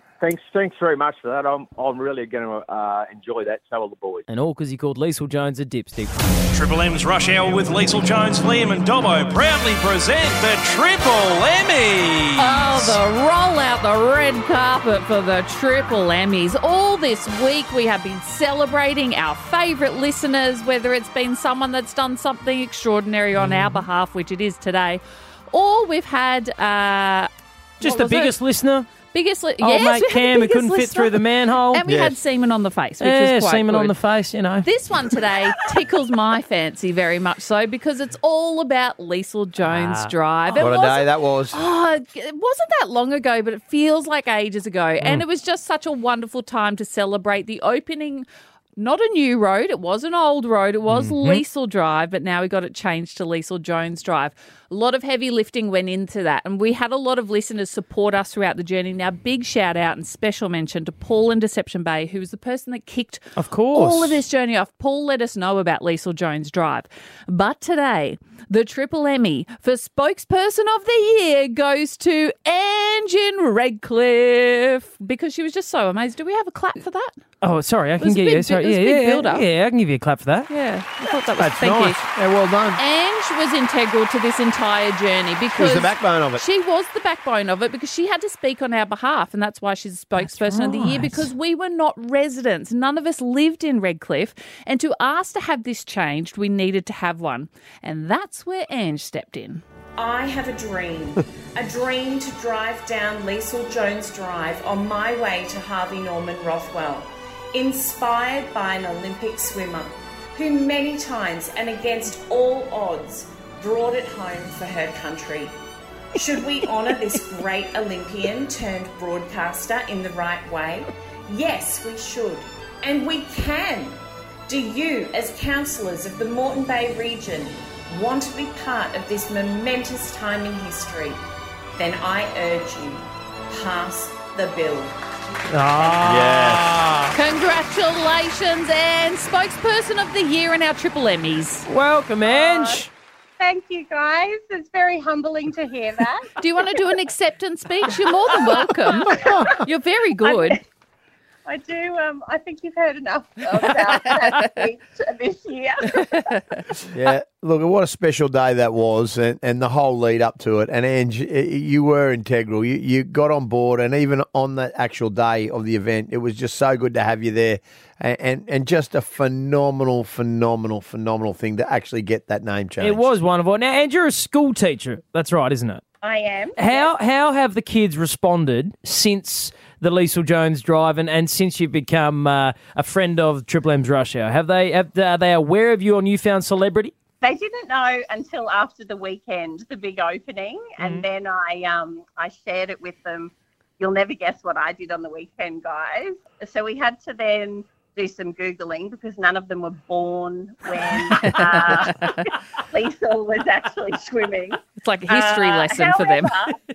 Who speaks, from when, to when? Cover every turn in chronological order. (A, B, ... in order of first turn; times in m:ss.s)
0:00.2-0:04.2 A
0:04.3-0:06.1 B
0:06.5-0:13.0 C
0:12.4-0:28.4 D
0:23.3-0:23.8 B
0:27.8-0:28.9 B
0:28.9-0:34.0 D
0:29.6-0:31.8 B
0:31.8-0:32.2 E
0:33.0-0:34.7 B
0:34.6-1:17.1 D
0:39.6-0:40.1 B
0:40.5-0:41.6 E
0:50.9-0:51.4 B
1:03.4-1:04.2 B
1:17.4-1:20.5 B
1:18.0-1:19.5 D
1:20.5-1:22.0 D
1:21.3-1:22.8 E
1:22.8-1:39.6 D
1:25.5-1:26.4 E
1:30.2-1:31.3 B
1:40.0-1:55.5 F
1:56.1-2:11.2 F
2:11.8-2:15.0 F
2:15.5-2:17.2 B
2:15.6-2:16.0 F
2:16.0-2:16.8 E
2:17.1-2:21.6 D
2:21.6-2:22.9 B
2:22.2-2:22.8 G
2:23.4-2:26.8 G
2:26.4-2:30.6 D
2:27.9-2:29.6 G
2:30.2-2:30.6 G
2:31.4-2:36.1 G
2:36.0-2:36.4 D
2:36.9-2:53.1 E
2:52.8-2:55.8 B
2:56.0-2:56.9 G
2:56.6-3:06.9 B
3:07.2-3:26.5 G
3:21.2-3:22.2 D
3:24.7-3:26.4 D